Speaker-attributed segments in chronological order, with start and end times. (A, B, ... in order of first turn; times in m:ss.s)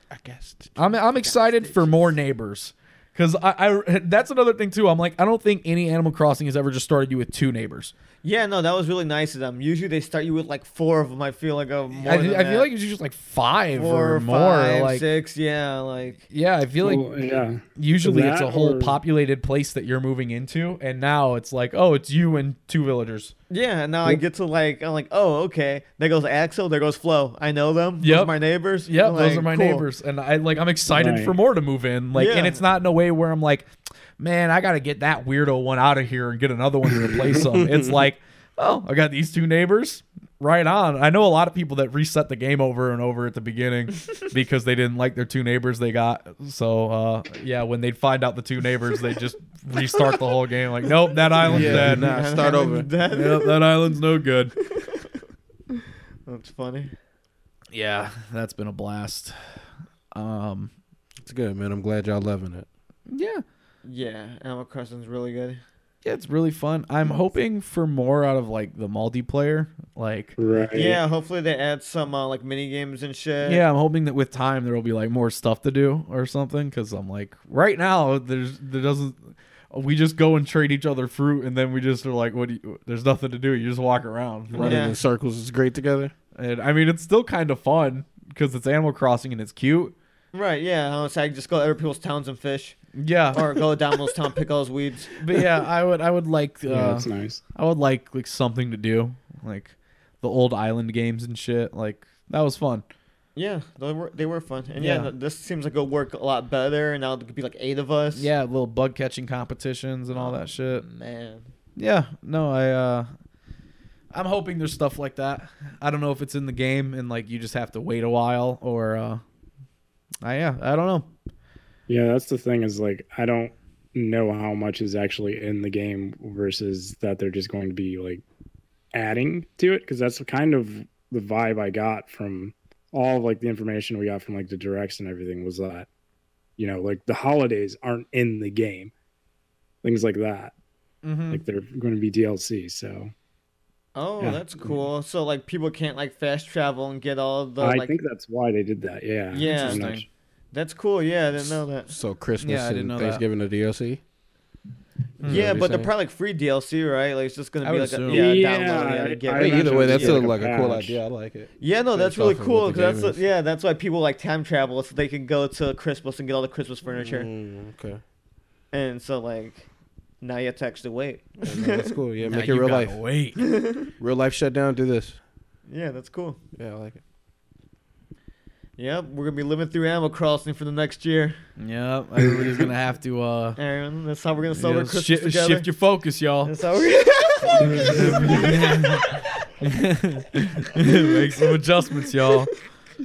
0:00.1-0:00.8 A
0:00.8-0:07.9 B
0:01.2-0:02.1 C
0:08.2-0:12.7 C
0:11.9-0:15.0 B
0:13.7-0:16.2 C
0:16.3-0:17.1 B
0:16.8-0:19.0 D
0:17.8-0:23.3 B
0:23.5-0:29.8 C
0:28.0-0:28.3 B
0:28.9-0:52.1 B
0:30.9-0:31.4 D
0:32.1-0:32.6 C
0:37.6-0:37.9 A
0:51.5-0:52.9 A
0:51.5-0:53.6 C
0:53.1-0:54.5 B
0:54.8-0:55.1 C
0:56.3-0:56.9 C
0:57.7-0:59.4 B
1:00.1-1:00.7 B
1:01.2-1:02.7 A
1:03.1-1:03.4 B
1:03.8-1:05.6 C
1:06.0-1:10.4 B
1:10.4-1:11.0 D
1:10.7-1:13.6 C
1:13.4-1:24.8 B
1:24.6-1:26.1 A
1:24.6-1:25.0 C
1:26.4-1:29.9 B
1:30.3-1:32.8 C
1:33.0-1:33.6 B
1:33.3-1:35.5 C
1:35.2-1:42.8 B
1:36.7-1:37.4 D
1:43.4-1:48.3 C
1:44.8-1:45.1 B
1:48.1-1:50.8 B
1:50.1-1:51.5 C
1:51.8-1:53.1 B
1:54.1-1:59.2 B
2:00.2-2:01.1 B
2:01.9-2:08.2 D
2:08.9-2:15.9 D
2:16.6-2:18.9 D
2:19.8-2:20.5 D
2:21.0-2:21.4 B
2:21.3-2:23.1 D
2:24.0-2:28.0 C
2:24.2-2:24.8 D
2:27.6-2:30.0 D
2:29.3-2:29.9 C
2:29.4-2:30.1 B
2:30.5-2:31.9 C
2:31.9-2:34.0 A
2:32.4-2:33.2 B
2:35.2-2:35.6 B
2:35.2-2:40.3 C
2:35.2-2:35.9 A
2:37.6-2:38.3 B
2:38.1-2:41.0 D
2:39.3-2:43.2 A
2:41.6-2:47.3 C
2:47.0-2:48.0 A
2:48.7-2:49.7 C
2:50.2-2:52.0 C
2:51.4-2:53.0 A
2:52.2-2:53.4 B
2:53.4-2:53.9 C
2:54.0-2:55.2 A
2:55.7-2:56.4 C
2:56.6-2:57.0 A
2:58.8-3:01.4 C
3:01.6-3:03.6 B
3:03.6-3:05.7 C
3:04.6-3:06.5 B
3:06.4-3:09.2 C
3:07.6-3:08.4 D
3:07.8-3:12.5 B